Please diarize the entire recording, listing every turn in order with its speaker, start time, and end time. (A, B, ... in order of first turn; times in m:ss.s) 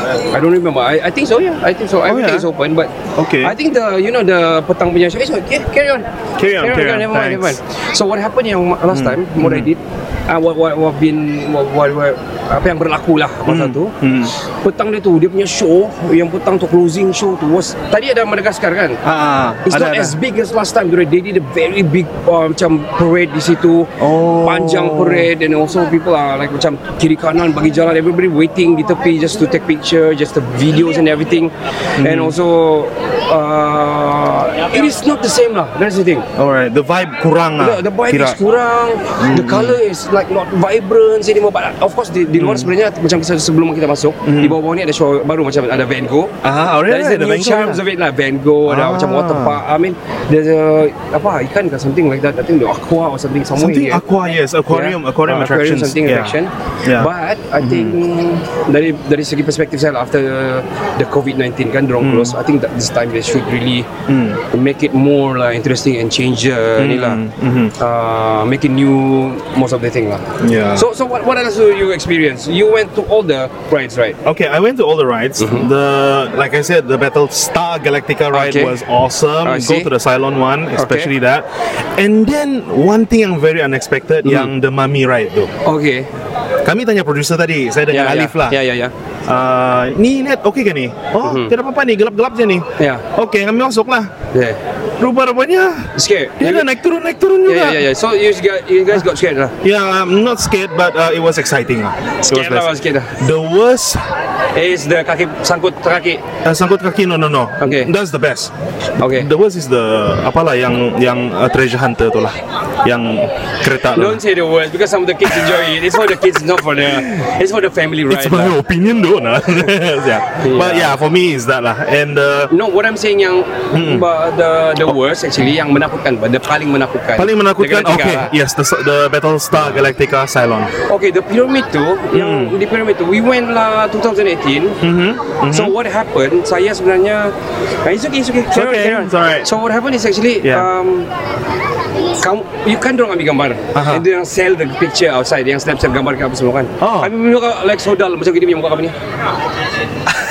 0:00.3-0:19.0 A
0:02.0-0:02.5 B
0:03.1-0:03.6 B
0:06.4-0:07.6 B
0:08.9-0:09.7 B
0:13.4-0:14.3 B
0:19.0-0:20.2 B
0:19.6-0:36.2 A
0:24.0-0:25.3 B
0:32.0-0:32.4 B
0:36.3-0:38.4 B
0:37.6-0:46.3 A
0:39.2-0:39.8 B
0:42.3-0:42.7 B
0:44.2-0:44.6 B
0:46.4-0:47.8 B
0:46.8-0:54.0 A
0:48.6-0:49.6 B
0:53.5-0:58.0 B
0:54.7-1:03.9 A
1:02.0-1:02.4 B
1:04.1-1:04.4 B
1:04.5-1:07.2 A
1:06.8-1:07.8 B
1:07.8-1:14.2 A
1:10.4-1:10.8 B
1:14.2-1:25.5 B
1:15.4-1:15.7 A
1:18.3-1:18.8 A
1:19.4-1:19.9 A
1:20.7-1:21.1 A
1:24.2-1:24.5 A
1:25.6-1:26.1 A
1:26.6-1:28.6 B
1:27.9-1:28.9 A
1:29.3-1:34.1 B
1:31.2-1:31.5 A
1:32.8-1:33.0 A
1:34.3-1:34.6 A
1:35.0-1:37.8 B
1:35.9-1:36.7 A
1:37.4-1:39.5 A
1:39.6-1:44.0 B
1:42.2-1:43.1 A
1:44.5-1:46.2 A
1:46.4-1:48.5 B
1:47.6-1:47.9 A
1:49.0-1:49.3 A
1:49.0-1:54.2 B
1:53.9-1:58.6 A
1:55.3-1:55.8 B
1:56.8-1:57.3 B
1:58.1-2:02.5 B
2:00.4-2:01.0 A
2:02.5-2:08.3 A
2:03.7-2:04.1 B
2:07.2-2:10.7 B
2:09.5-2:09.8 A
2:10.8-2:14.8 A
2:12.1-2:12.6 B
2:14.8-2:15.7 B
2:15.5-2:21.1 A
2:18.5-2:19.5 B
2:20.4-2:20.7 B
2:22.2-2:29.0 A
2:23.7-2:24.0 B
2:26.8-2:27.1 B